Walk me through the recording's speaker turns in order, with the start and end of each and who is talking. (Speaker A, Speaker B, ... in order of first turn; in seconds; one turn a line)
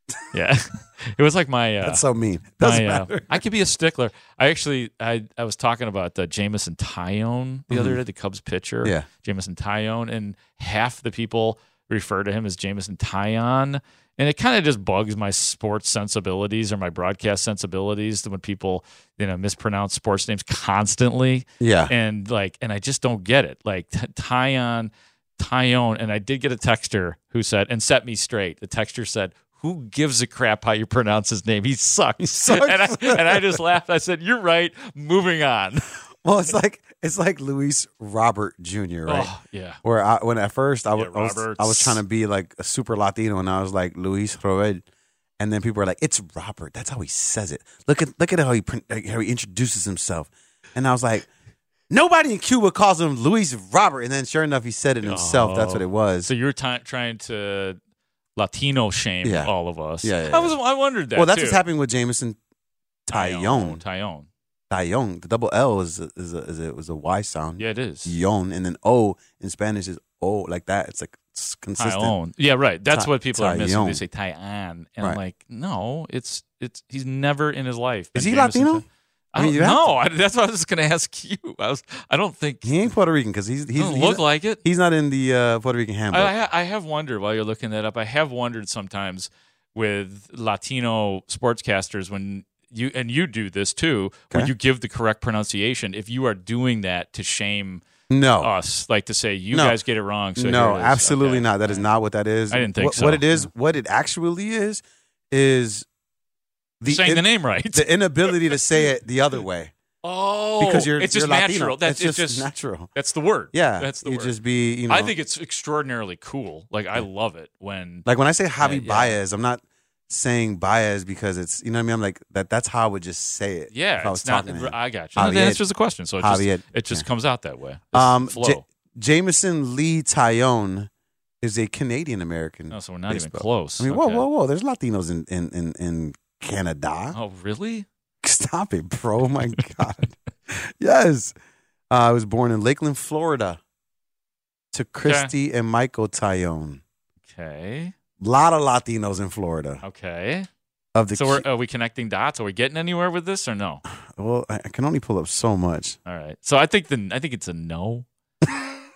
Speaker A: 0.3-2.0
Speaker B: 1.8-3.4
Speaker A: 2.6-35.9
Speaker B: 7.7-8.0
Speaker B: 21.6-21.9
Speaker B: 32.2-33.6
Speaker B: 36.2-39.3
Speaker A: 39.1-39.8
Speaker B: 39.8-44.8
Speaker A: 41.0-42.0
Speaker B: 45.4-51.3
Speaker B: 51.9-56.3
Speaker A: 55.0-57.8
Speaker A: 58.4-61.6
Speaker B: 59.2-59.5
Speaker B: 60.0-60.5
Speaker B: 61.1-62.4
Speaker B: 63.1-63.8
Speaker A: 63.1-64.3
Speaker B: 64.7-72.1
Speaker A: 67.6-68.2
Speaker A: 71.8-82.9
Speaker B: 72.9-74.0
Speaker B: 78.1-79.9
Speaker B: 82.6-86.3
Speaker A: 83.8-84.6
Speaker A: 86.1-97.8
Speaker B: 98.1-98.5
Speaker A: 98.4-101.9
Speaker B: 99.5-99.8
Speaker B: 100.3-105.8
Speaker A: 102.5-103.5
Speaker B: 106.8-109.7
Speaker A: 106.8-108.5
Speaker A: 110.0-114.3
Speaker B: 110.6-112.9
Speaker B: 113.5-115.1
Speaker A: 114.9-118.0
Speaker B: 118.0-125.6
Speaker A: 118.6-119.2
Speaker A: 123.7-128.6
Speaker B: 126.2-127.0
Speaker B: 127.9-130.9
Speaker B: 131.4-137.2
Speaker A: 132.7-134.3
Speaker A: 137.1-137.8
Speaker B: 138.2-141.3
Speaker B: 141.9-143.6
Speaker B: 144.7-146.8
Speaker A: 145.0-145.3
Speaker A: 147.3-147.9
Speaker B: 148.2-149.8
Speaker A: 149.8-150.5
Speaker B: 150.9-151.4
Speaker A: 151.1-153.8
Speaker B: 153.9-156.0
Speaker A: 156.1-158.1